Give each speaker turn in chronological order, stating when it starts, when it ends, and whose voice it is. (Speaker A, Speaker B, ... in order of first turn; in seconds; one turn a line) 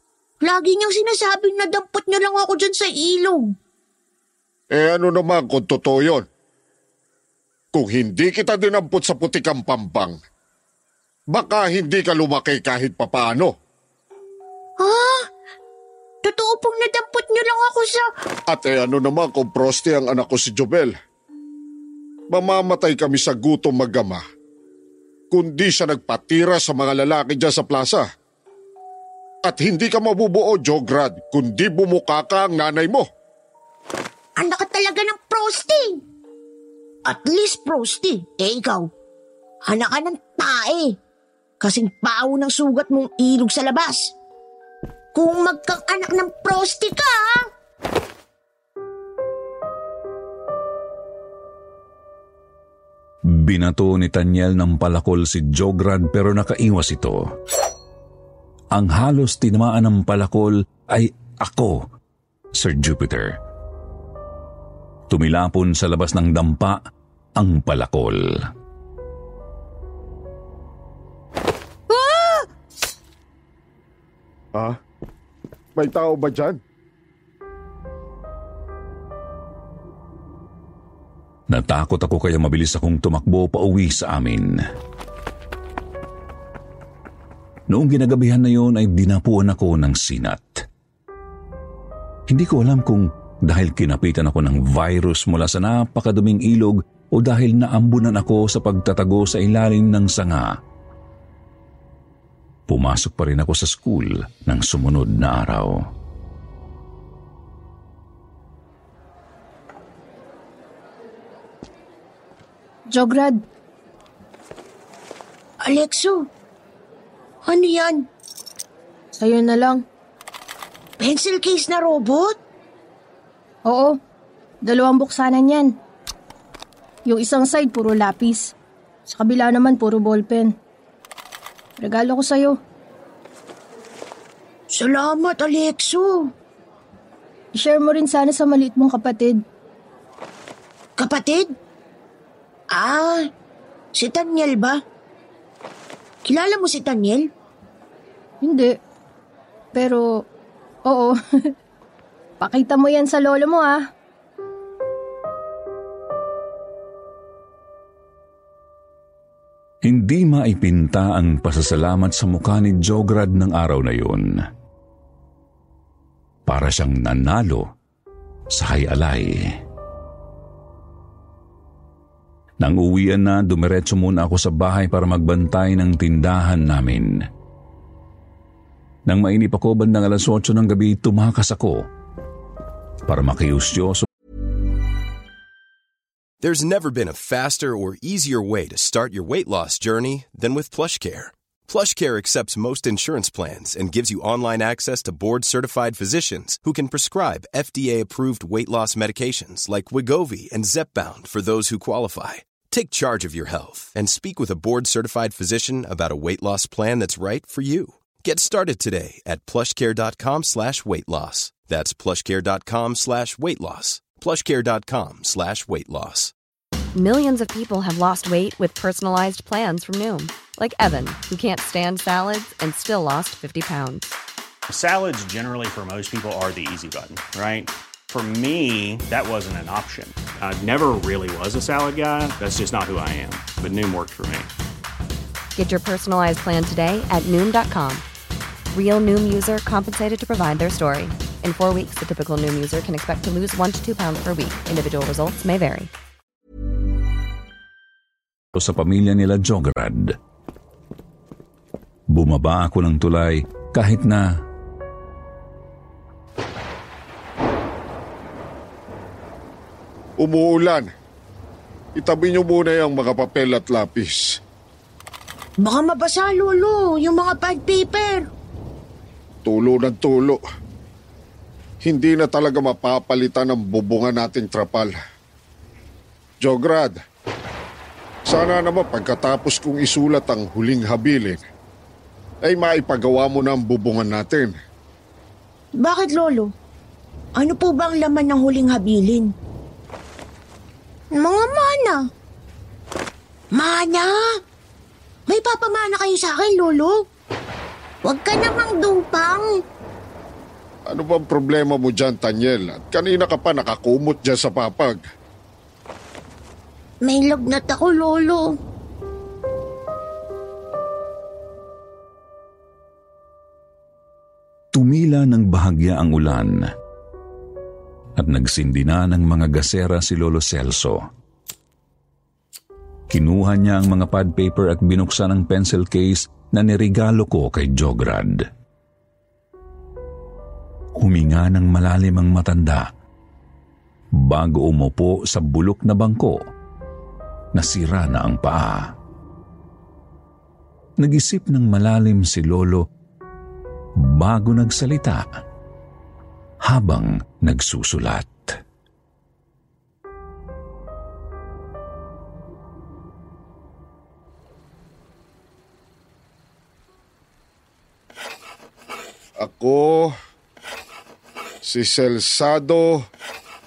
Speaker A: 0.4-3.5
Speaker B: 4.7-6.2
Speaker B: 7.7-10.2
Speaker B: 11.3-13.5
Speaker A: 14.8-15.2
Speaker A: 16.2-18.0
Speaker B: 18.5-20.9
Speaker B: 22.3-24.2
Speaker B: 25.3-28.1
Speaker B: 29.4-33.1
Speaker A: 34.4-35.9
Speaker A: 37.0-38.9
Speaker A: 39.7-40.9
Speaker A: 41.6-44.1
Speaker A: 45.1-47.5
Speaker C: 53.3-57.4
Speaker C: 58.7-61.9
Speaker C: 62.5-63.4
Speaker C: 65.1-66.8
Speaker C: 67.4-68.5
Speaker D: 71.9-72.5
Speaker B: 75.8-76.6
Speaker C: 81.5-84.5
Speaker C: 87.7-90.6
Speaker C: 92.3-100.6
Speaker C: 102.7-105.8
Speaker D: 112.9-113.4
Speaker A: 115.6-116.3
Speaker A: 117.4-118.1
Speaker D: 119.1-119.8
Speaker A: 121.0-122.3
Speaker D: 123.7-124.0
Speaker D: 124.6-125.7
Speaker D: 127.0-128.5
Speaker D: 129.1-130.5
Speaker D: 131.8-132.6
Speaker A: 134.7-136.3
Speaker D: 137.5-139.4
Speaker A: 141.0-141.5
Speaker A: 142.7-143.2
Speaker A: 143.9-144.8
Speaker A: 146.2-147.3
Speaker D: 148.4-148.8
Speaker D: 149.7-150.2
Speaker D: 150.9-151.1
Speaker D: 152.4-153.8
Speaker C: 159.8-164.4
Speaker C: 166.4-167.7
Speaker C: 168.5-169.4
Speaker C: 172.6-177.1
Speaker C: 179.1-181.9
Speaker C: 183.1-184.1
Speaker E: 186.4-216.3
Speaker F: 216.9-224.1
Speaker G: 224.7-234.5
Speaker F: 235.6-238.0
Speaker F: 238.7-245.9
Speaker C: 248.5-250.2
Speaker C: 252.1-254.4
Speaker B: 260.2-260.9
Speaker B: 261.9-264.4
Speaker A: 265.6-268.2
Speaker B: 269.4-270.4
Speaker B: 271.8-274.9
Speaker B: 276.4-277.0
Speaker B: 278.3-281.4
Speaker B: 282.4-284.5
Speaker A: 285.8-286.5
Speaker A: 287.4-289.3
Speaker A: 291.1-292.0
Speaker A: 293.5-294.1
Speaker A: 295.3-296.9
Speaker A: 298.0-299.4
Speaker B: 300.9-305.0
Speaker A: 307.0-308.4
Speaker C: 314.7-316.6
Speaker C: 318.2-321.0
Speaker C: 323.1-328.4
Speaker C: 331.0-332.9
Speaker C: 334.1-336.4
Speaker C: 337.5-338.9
Speaker C: 341.0-342.8
Speaker C: 344.0-345.3
Speaker C: 346.6-348.6
Speaker B: 359.4-360.1
Speaker B: 361.6-363.0